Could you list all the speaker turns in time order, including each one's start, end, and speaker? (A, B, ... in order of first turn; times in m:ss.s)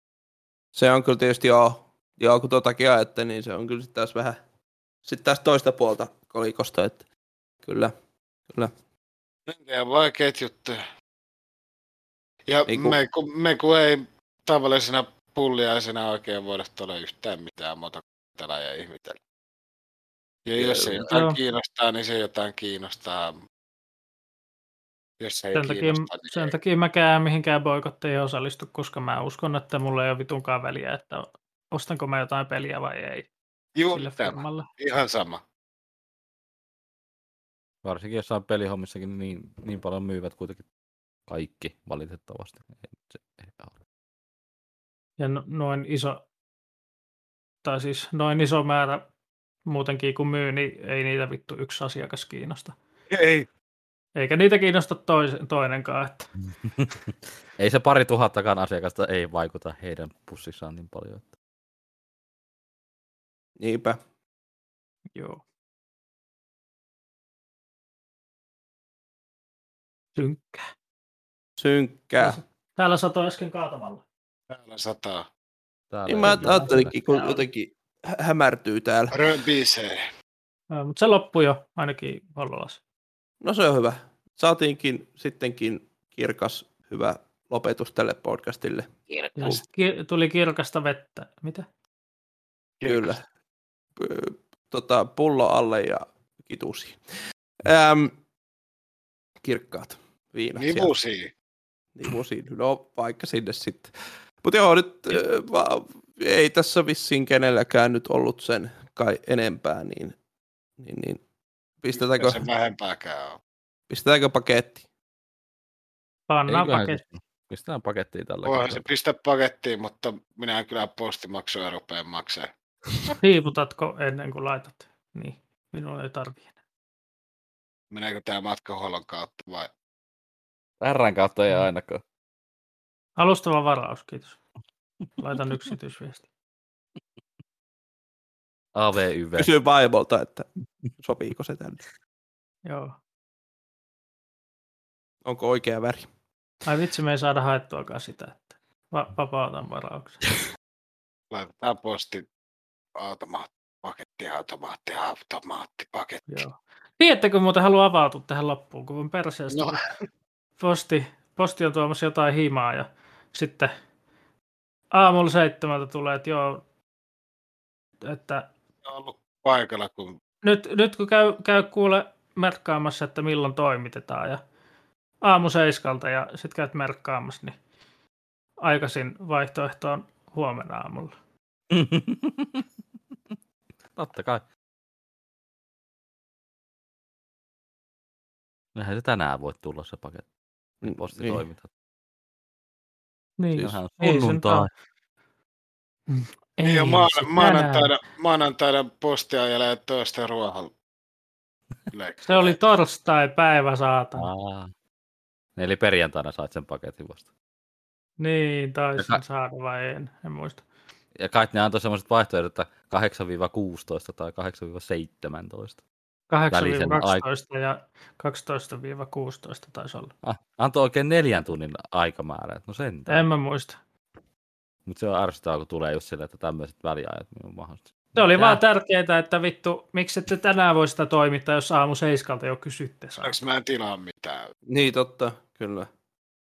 0:00.7-0:04.4 A
0:05.0-0:07.0 A
0:07.6-0:07.9 A
0:09.5-0:10.8 B
0:12.5-0:19.2 B
0:12.7-0:13.0 A
0:20.5-0:23.3 B
0:20.5-0:21.1 A
0:21.1-0:21.4 C
0:25.2-0:26.5 B
0:25.5-0:33.3 C
0:33.8-0:35.4 B
0:33.9-0:34.7 C
0:37.8-0:40.6 D
0:41.3-0:43.7 D
0:45.2-0:46.2 C
0:47.6-0:49.1 C
0:49.7-0:52.8 C
0:53.1-0:53.5 B
0:54.2-0:56.3 C
0:56.5-1:01.3 D
1:03.6-1:04.0 A
1:05.1-1:05.4 C
1:10.2-1:10.6 C
1:11.6-1:12.4 A
1:12.2-1:14.0 C
1:14.5-1:15.3 B
1:15.9-1:17.0 D
1:16.1-1:19.2 A
1:16.2-1:17.4 C
1:19.1-1:20.0 B
1:20.7-1:22.8 C
1:23.4-1:28.9 A
1:29.1-1:29.6 B
1:29.4-1:31.7 C
1:32.8-1:33.1 B
1:32.8-1:33.2 A
1:34.0-1:37.0 A
1:37.6-1:38.1 A
1:39.4-1:40.9 A
1:40.6-1:41.3 B
1:42.0-1:50.2 A
1:50.8-1:51.2 A
1:51.8-1:52.4 A
1:52.0-1:53.4 B
1:53.9-1:54.8 A
1:56.3-1:57.0 C
1:56.5-1:58.9 D
1:58.4-2:02.5 B
2:03.1-2:06.5 C
2:07.9-2:09.7 B
2:10.8-2:12.0 D
2:13.2-2:14.4 C
2:15.2-2:16.3 C
2:18.8-2:19.5 D
2:19.4-2:20.5 A
2:21.0-2:21.8 A
2:22.7-2:23.0 C
2:25.2-2:26.1 A
2:26.6-2:30.2 C
2:31.3-2:32.2 B
2:33.0-2:36.4 B
2:36.3-2:39.8 C
2:39.5-2:39.9 B
2:40.6-2:43.7 C
2:44.9-2:46.6 C
2:48.1-2:48.5 C
2:48.8-2:50.2 B
2:50.4-2:54.4 C
2:55.2-2:57.6 C
2:58.6-3:01.1 C
3:01.7-3:02.6 D
3:04.0-3:04.5 D
3:08.8-3:10.3 D
3:10.8-3:11.4 A
3:10.8-3:11.7 D
3:13.4-3:14.7 C
3:13.6-3:14.7 D
3:16.1-3:17.9 C
3:16.6-3:20.7 B
3:21.9-3:22.6 B
3:22.2-3:24.3 C
3:24.2-3:24.7 D
3:25.6-3:27.3 D
3:28.2-3:30.6 C
3:31.2-3:35.8 D
3:36.3-3:40.1 C
3:36.5-3:37.2 D
3:40.2-3:43.3 D
3:43.1-3:43.8 C
3:44.9-3:48.6 D
3:48.2-3:53.4 C
3:53.2-3:54.5 B
3:54.7-3:55.9 A